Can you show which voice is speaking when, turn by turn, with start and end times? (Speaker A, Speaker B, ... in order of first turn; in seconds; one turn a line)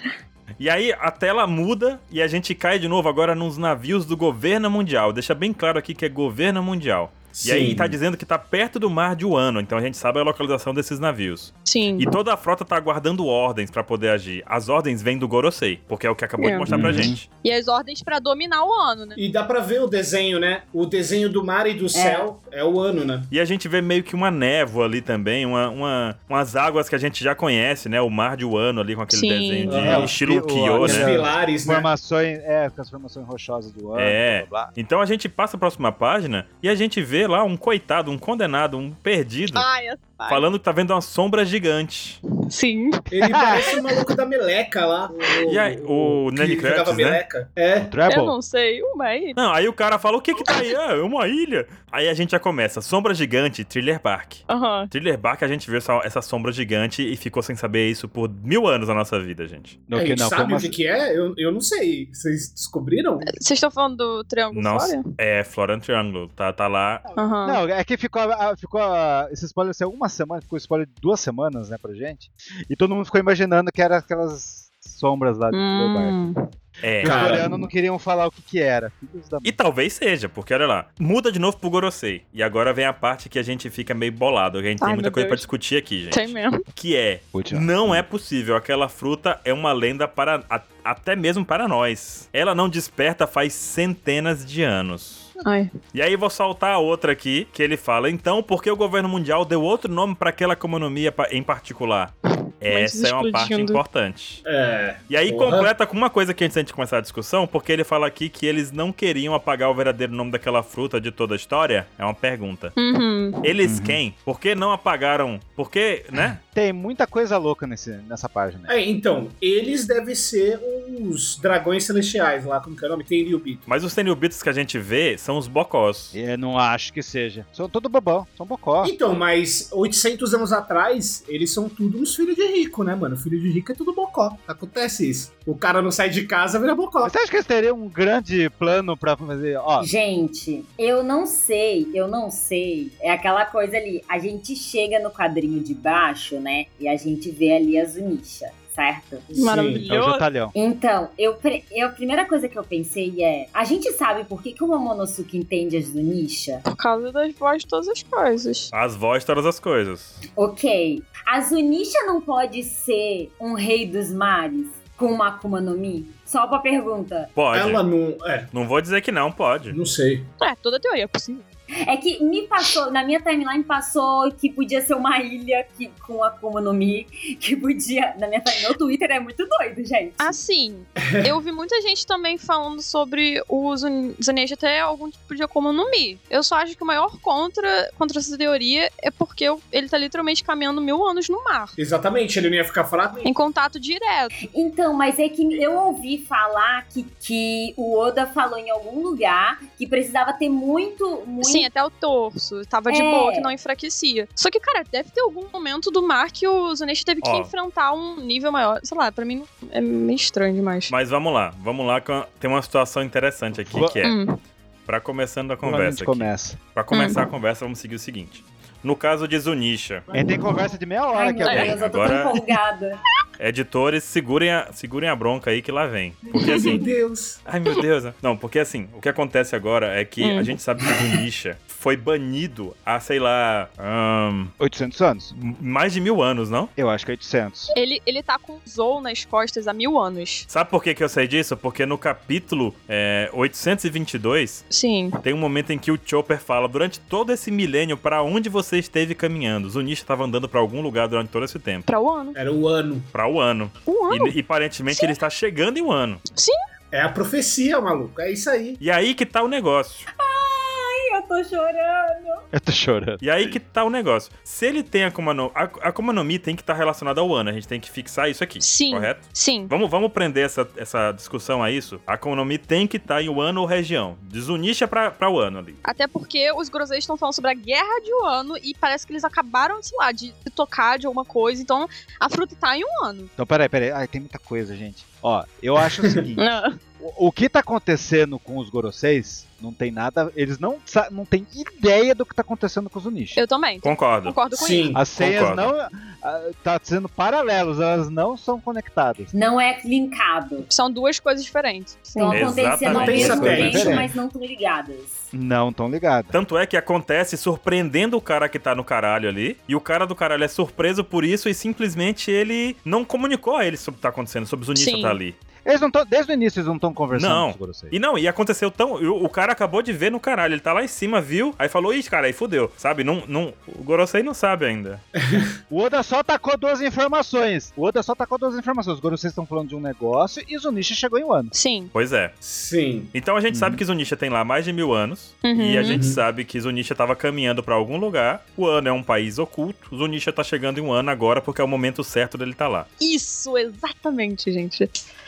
Speaker A: 0.6-17.2
Speaker B: 7.3-7.9
Speaker C: 11.7-12.1
Speaker C: 16.4-16.7
Speaker D: 16.7-17.2
Speaker B: 16.7-17.1
Speaker C: 17.4-19.2
Speaker B: 19.2-23.3
Speaker E: 21.9-22.3
Speaker A: 23.3-31.2
Speaker C: 29.1-29.8
Speaker B: 29.7-30.1
Speaker D: 29.8-34.7
Speaker B: 30.8-31.9
Speaker A: 33.9-39.7
Speaker C: 39.5-40.5
Speaker A: 40.3-42.2
Speaker C: 42.5-44.0
Speaker B: 43.1-47.9
Speaker D: 43.2-43.7
Speaker A: 45.5-47.2
Speaker D: 47.8-48.4
Speaker C: 48.1-49.4
Speaker A: 49.4-59.8
Speaker C: 54.5-54.9
Speaker D: 59.9-60.8
Speaker B: 59.9-63.4
Speaker C: 63.3-65.1
Speaker A: 64.5-67.0
Speaker C: 67.2-67.6
Speaker D: 67.4-76.2
Speaker C: 75.5-76.3
Speaker A: 76.8-77.4
Speaker D: 77.0-79.5
Speaker B: 77.0-77.5
Speaker A: 79.4-95.3
Speaker C: 84.8-85.5
Speaker C: 86.1-86.6
Speaker D: 87.3-88.0
Speaker C: 95.4-95.7
Speaker A: 95.9-104.4
Speaker C: 102.7-103.8
Speaker B: 104.4-105.7
Speaker A: 105.1-112.7
Speaker C: 112.8-113.4
Speaker A: 113.4-116.4
Speaker D: 113.6-114.0
Speaker D: 116.4-118.7
Speaker B: 118.7-123.7
Speaker A: 123.7-126.1
Speaker D: 126.1-128.9
Speaker B: 128.8-137.1
Speaker D: 137.0-139.9
Speaker E: 139.8-149.3
Speaker B: 149.3-149.9
Speaker C: 149.3-150.2
Speaker D: 149.9-150.5
Speaker E: 150.5-156.6
Speaker C: 156.7-158.7
Speaker A: 158.7-160.2
Speaker E: 160.4-167.3
Speaker A: 167.3-167.8
Speaker B: 167.5-168.5
Speaker A: 168.5-169.8
Speaker B: 169.7-170.3
Speaker C: 170.4-171.4
Speaker E: 171.8-180.4
Speaker C: 180.2-191.7
Speaker B: 181.0-181.3
Speaker B: 191.8-193.3
Speaker C: 193.2-194.3
Speaker E: 194.5-201.7
Speaker C: 201.4-210.9
Speaker E: 202.9-203.5
Speaker A: 207.2-207.5
Speaker A: 210.9-214.2
Speaker D: 213.5-214.0
Speaker C: 214.0-214.3
Speaker A: 214.8-220.1
Speaker D: 215.6-216.6
Speaker C: 216.9-217.2
Speaker D: 220.1-221.8
Speaker E: 221.1-223.0
Speaker A: 221.5-222.3
Speaker A: 223.4-226.9
Speaker C: 226.4-226.7
Speaker B: 226.4-227.4
Speaker A: 227.4-234.5
Speaker C: 230.2-230.5
Speaker D: 234.6-235.3
Speaker A: 235.3-236.7
Speaker D: 236.8-237.7
Speaker C: 237.7-240.5
Speaker A: 240.5-244.7
Speaker C: 244.7-245.2
Speaker A: 245.2-251.9
Speaker C: 251.8-252.4
Speaker B: 252.3-253.1
Speaker A: 253.1-256.2
Speaker C: 253.8-254.3
Speaker C: 254.9-255.1
Speaker B: 256.9-258.8
Speaker A: 258.8-260.1
Speaker E: 260.2-262.4
Speaker D: 262.5-263.6
Speaker A: 263.2-275.8
Speaker C: 268.6-269.7
Speaker C: 275.8-283.3
Speaker D: 283.4-293.4
Speaker C: 286.4-286.8
Speaker C: 293.3-294.9
Speaker A: 293.8-294.4
Speaker B: 294.5-295.0
Speaker D: 294.9-299.3
Speaker A: 295.1-295.7
Speaker E: 299.3-300.7
Speaker C: 300.7-302.7
Speaker E: 302.1-305.3
Speaker A: 302.3-303.9
Speaker B: 302.8-304.1
Speaker D: 302.9-304.1
Speaker D: 305.3-306.4
Speaker A: 306.3-315.4
Speaker C: 314.7-315.2
Speaker D: 315.6-317.9
Speaker A: 317.1-325.0
Speaker B: 325.2-325.5
Speaker D: 325.7-331.5
Speaker C: 331.5-331.9
Speaker A: 331.9-332.3
Speaker B: 332.4-333.1
Speaker A: 333.1-342.9
Speaker D: 333.5-333.8
Speaker C: 335.4-336.0
Speaker B: 335.9-336.2
Speaker C: 343.0-344.9